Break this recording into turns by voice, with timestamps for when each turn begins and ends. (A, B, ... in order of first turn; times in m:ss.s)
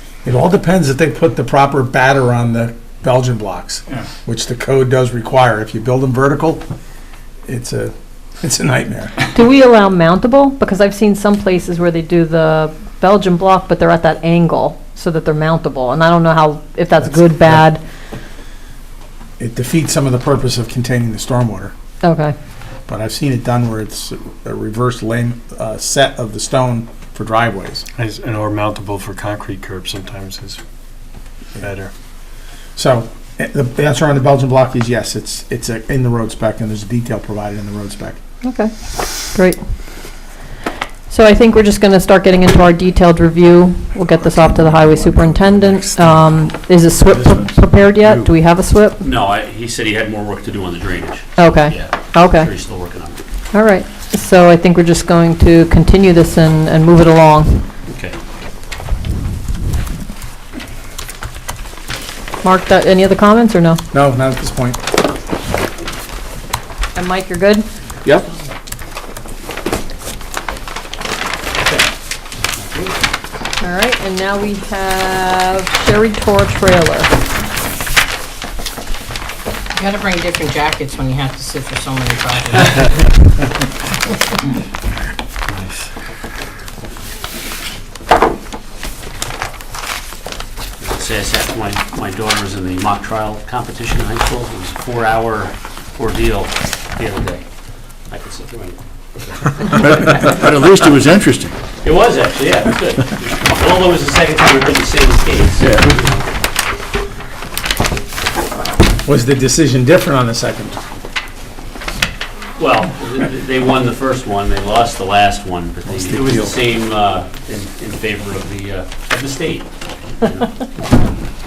0:00.2-0:06.6 A
0:07.5-0:09.2 A
0:09.3-0:17.8 B
0:19.4-0:21.7 A
0:22.0-0:22.4 B
0:22.9-0:27.9 A
0:28.0-0:30.6 C
0:31.6-0:31.9 C
0:32.8-0:38.2 A
0:38.4-0:38.7 B
0:39.3-0:39.6 B
0:41.1-0:49.0 B
0:44.9-0:46.3 D
0:47.1-0:48.3 D
0:49.0-0:53.2 E
0:51.4-0:52.5 B
0:53.5-0:57.7 B
0:57.9-0:58.2 E
1:02.4-1:03.8 B
1:03.9-1:04.8 A
1:07.0-1:07.6 B
1:11.6-1:11.9 E
1:12.5-1:13.1 E
1:13.6-1:17.1 B
1:19.8-1:22.8 F
1:25.5-1:25.9 C
1:30.8-1:37.4 E
1:38.1-1:40.9 E
1:39.8-1:41.5 D
1:41.8-1:46.3 E
1:45.6-1:46.0 D
1:49.0-1:50.8 A
1:52.6-2:00.6 E
1:55.9-1:56.6 A